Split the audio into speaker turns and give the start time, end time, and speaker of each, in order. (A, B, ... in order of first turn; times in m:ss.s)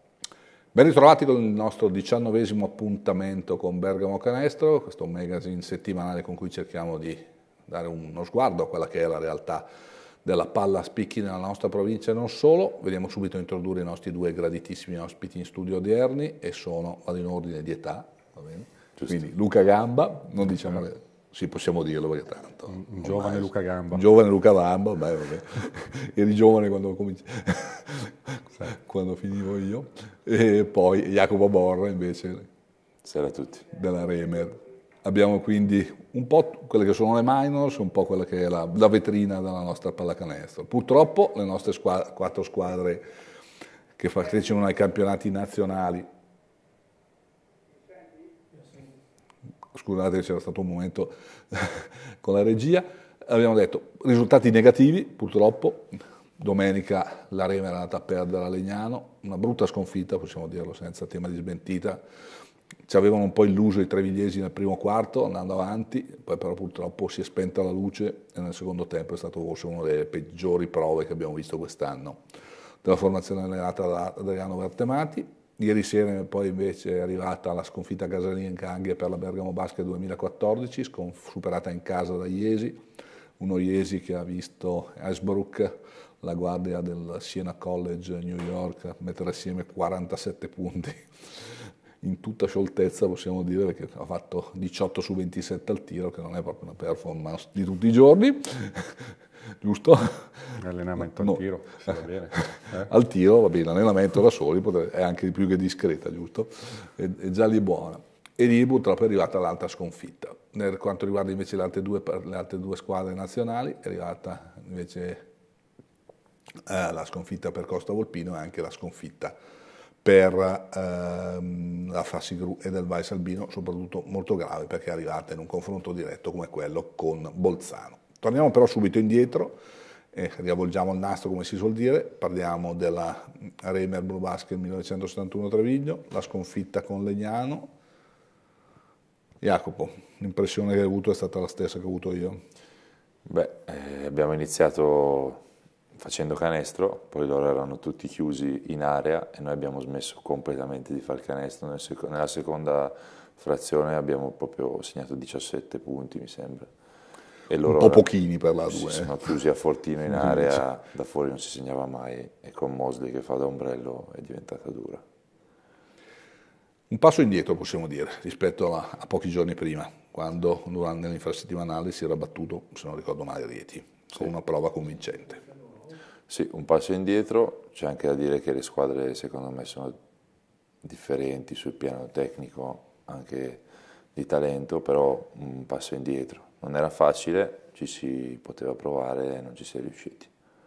0:00.7-0:09.7 A
0:10.2-0:32.5 A
0:22.7-0:24.0 B
0:33.0-0:33.7 C
0:33.7-0:43.0 A
0:44.0-0:46.1 A
0:49.7-1:02.0 A
1:02.9-1:12.2 A
1:12.8-1:22.8 A
1:23.4-1:41.4 A
1:40.6-1:42.9 B
1:42.0-1:55.3 A
1:56.7-1:59.4 A
2:00.0-2:09.6 A
2:10.1-2:17.7 A
2:19.4-2:22.4 A
2:23.2-2:25.4 C
2:26.0-2:36.7 C
2:37.5-2:38.0 C
2:37.6-2:39.3 A
2:38.7-2:45.0 C
2:40.1-2:40.6 A
2:46.9-2:55.4 A
2:56.3-3:00.0 C
3:00.8-3:03.6 C
3:04.1-3:10.3 C